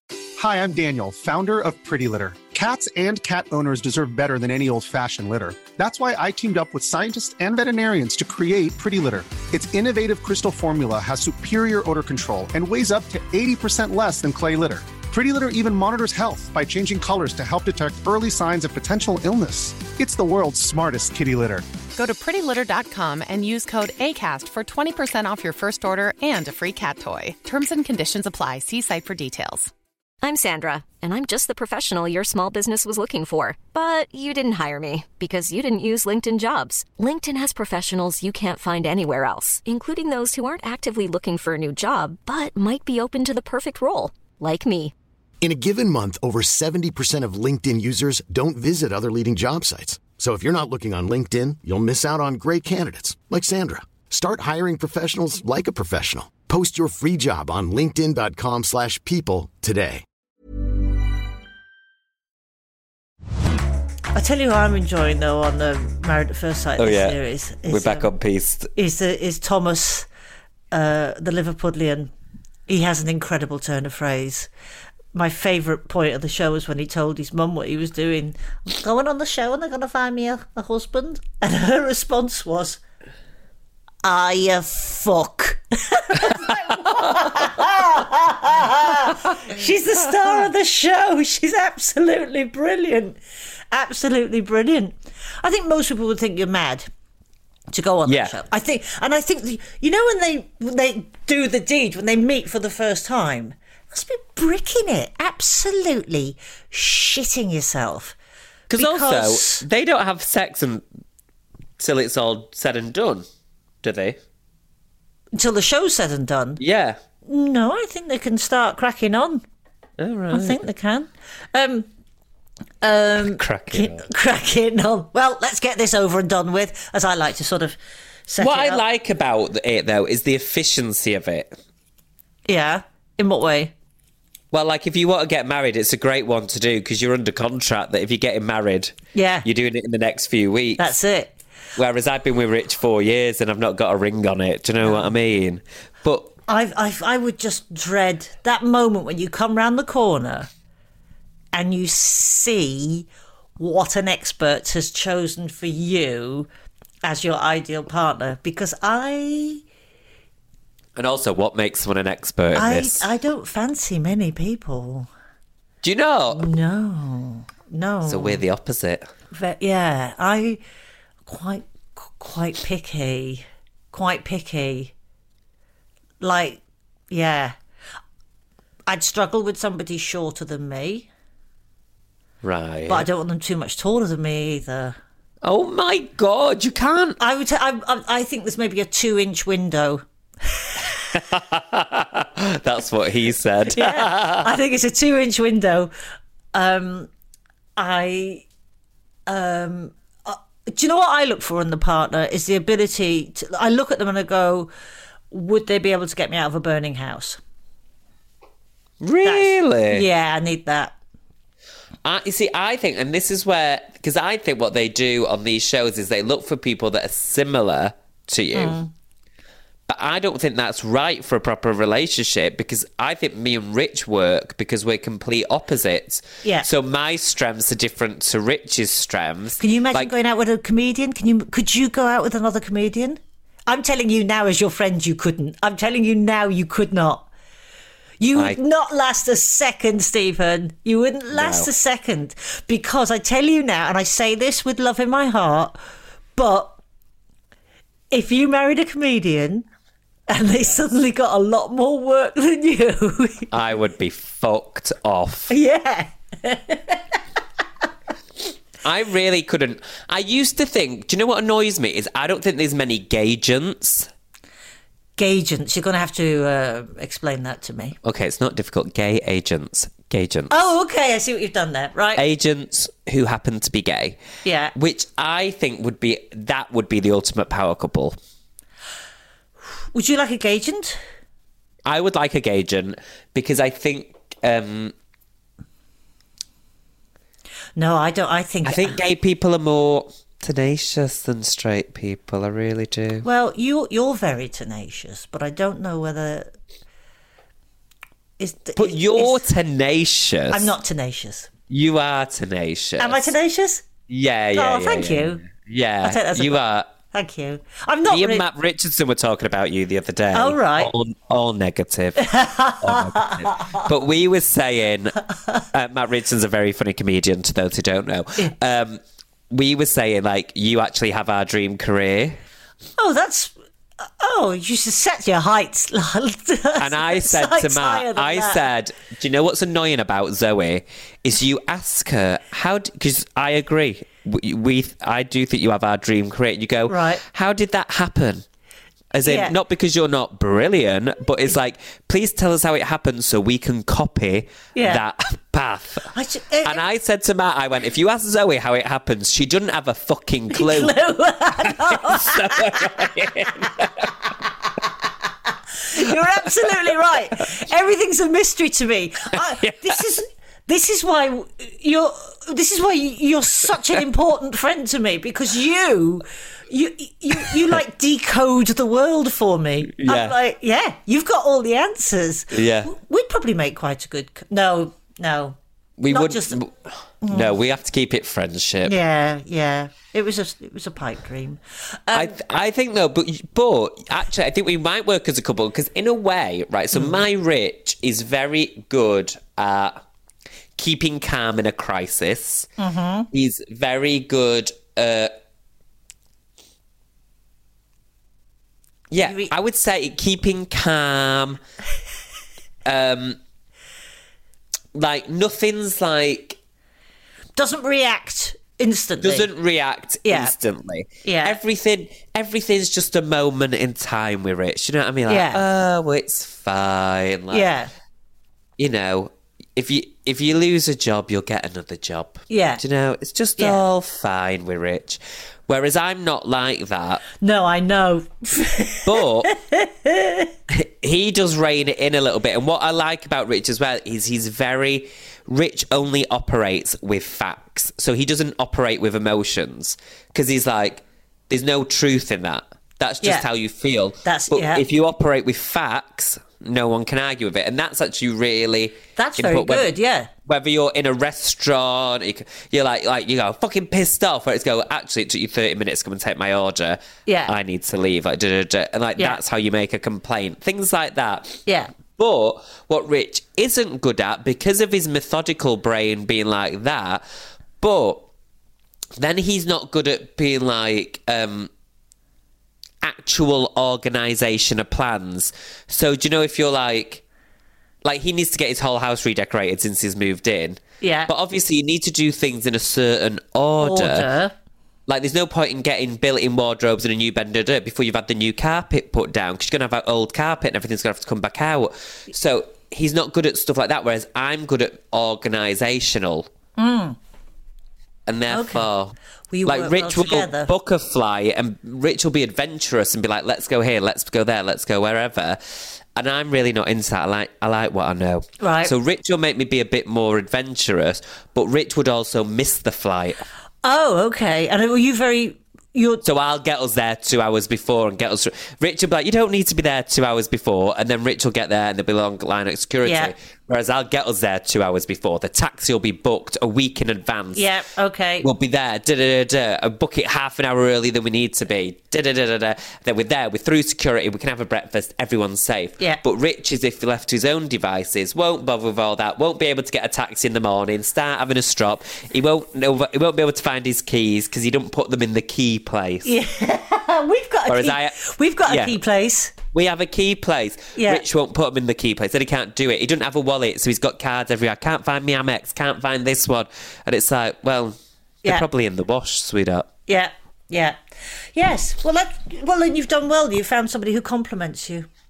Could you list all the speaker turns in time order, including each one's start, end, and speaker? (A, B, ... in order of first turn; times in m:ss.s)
0:00.4-0:21.7 A
0:22.0-0:29.7 B
0:30.2-0:44.9 C
0:45.4-1:00.0 D
1:04.1-1:08.1 E
1:06.8-1:08.7 F
1:08.8-1:10.1 E
1:10.7-1:12.1 E
1:12.7-1:14.5 E
1:15.1-1:22.8 E
1:24.0-1:33.2 E
1:33.7-1:36.9 E
1:37.7-1:48.2 E
1:38.1-1:38.3 F
1:48.7-1:50.8 F
1:48.8-1:49.6 E
1:51.8-1:53.2 F
1:53.8-1:54.2 F
1:55.4-1:56.6 E
1:56.6-1:57.0 F
1:57.3-1:59.4 E
2:00.0-2:00.6 F
2:00.3-2:01.9 E
2:02.8-2:08.8 E
2:03.3-2:04.1 F
2:08.4-2:11.5 F
2:12.5-2:13.7 E
2:14.5-2:21.0 F
2:19.1-2:19.5 E
2:20.8-2:21.3 E
2:21.8-2:26.3 F
2:24.8-2:25.1 E
2:26.5-2:30.5 E
2:31.5-2:33.1 E
2:33.6-2:36.5 E
2:37.0-2:39.6 E
2:41.0-2:43.1 F
2:42.6-2:45.1 E
2:45.8-2:46.5 F
2:46.3-2:48.4 E
2:48.1-2:49.1 F
2:49.3-2:50.6 E
2:51.3-2:54.9 E
2:56.2-2:57.6 E
2:58.9-3:01.1 E
3:02.4-3:03.1 F
3:02.9-3:05.0 E
3:05.4-3:07.2 F
3:07.2-3:11.0 E
3:11.1-3:14.5 F
3:13.7-3:15.9 E
3:16.5-3:17.1 E
3:17.8-3:18.4 E
3:19.3-3:24.7 E
3:25.3-3:27.4 E
3:29.0-3:30.0 F
3:29.2-3:31.0 E
3:32.0-3:38.8 F
3:38.6-3:38.9 E
3:39.9-3:50.1 F
3:49.6-3:57.3 E
3:58.2-4:05.8 E
4:01.3-4:01.7 F
4:06.4-4:06.8 E
4:08.1-4:09.7 E
4:10.3-4:13.5 E
4:13.5-4:15.5 F
4:15.5-4:17.0 E
4:18.8-4:24.1 F
4:25.2-4:28.0 E
4:28.0-4:30.5 F
4:30.5-4:32.2 E
4:32.2-4:34.2 F
4:34.4-4:34.7 E
4:34.8-4:38.2 F
4:39.9-4:41.0 E
4:41.9-4:44.9 F
4:47.8-4:49.0 E
4:48.6-4:53.3 F
4:53.2-4:56.5 E
4:58.4-4:59.4 E
4:58.8-5:00.7 F
5:00.5-5:01.5 E
5:01.7-5:03.3 F
5:03.0-5:03.9 E
5:04.1-5:06.9 F
5:04.6-5:05.4 E
5:06.0-5:08.4 E
5:08.1-5:15.2 F
5:10.3-5:10.9 E
5:12.2-5:13.8 E
5:15.7-5:22.4 F
5:23.0-5:28.6 E
5:26.8-5:38.4 F
5:36.9-5:37.2 E
5:39.1-5:46.1 F
5:39.2-5:39.5 E
5:44.8-5:45.0 E
5:46.1-5:46.8 E
5:46.6-5:51.0 F
5:50.5-5:53.1 E
5:51.7-5:54.1 F
5:55.9-6:15.6 E
5:56.4-5:56.9 F
5:59.3-6:00.0 F
6:10.0-6:10.4 F
6:12.5-6:12.9 F
6:16.0-6:16.7 F
6:16.1-6:16.6 E
6:17.2-6:17.6 E
6:17.3-6:19.0 F
6:18.8-6:22.3 E
6:22.1-6:30.0 F
6:26.9-6:27.2 E
6:30.8-6:32.7 F
6:32.8-6:33.3 E
6:33.3-6:35.3 F
6:39.1-6:41.6 F
6:39.2-6:39.5 E
6:42.8-6:43.4 F
6:44.9-6:46.6 F
6:47.6-6:49.5 E
6:49.2-6:57.7 F
6:50.3-6:50.5 E
6:51.2-6:51.6 E
6:55.3-6:55.6 E
6:57.5-6:57.9 E
6:58.8-7:07.2 F
7:02.5-7:02.8 E
7:07.4-7:10.5 E
7:09.0-7:09.5 F
7:10.7-7:29.9 F
7:24.2-7:24.8 E
7:29.2-7:30.3 E
7:30.5-7:41.6 F
7:37.3-7:37.5 E
7:41.7-7:41.9 E
7:42.2-7:47.2 F
7:47.8-7:48.3 F
7:49.2-7:51.7 F
7:53.0-7:57.2 F
7:58.0-8:04.3 F
8:01.0-8:01.3 E
8:03.8-8:04.5 E
8:05.1-8:16.5 F
8:16.8-8:17.2 E
8:18.3-8:19.1 F
8:18.5-8:18.9 E
8:19.5-8:20.7 E
8:19.7-8:33.4 F
8:28.6-8:28.9 E
8:33.8-8:36.2 E
8:36.2-8:47.7 F
8:43.0-8:43.3 E
8:47.6-8:48.5 E
8:48.4-9:06.3 F
9:06.2-9:09.5 E
9:07.7-9:09.0 F
9:09.7-9:19.9 F
9:11.0-9:11.2 E
9:20.1-9:21.0 E
9:21.6-9:25.1 E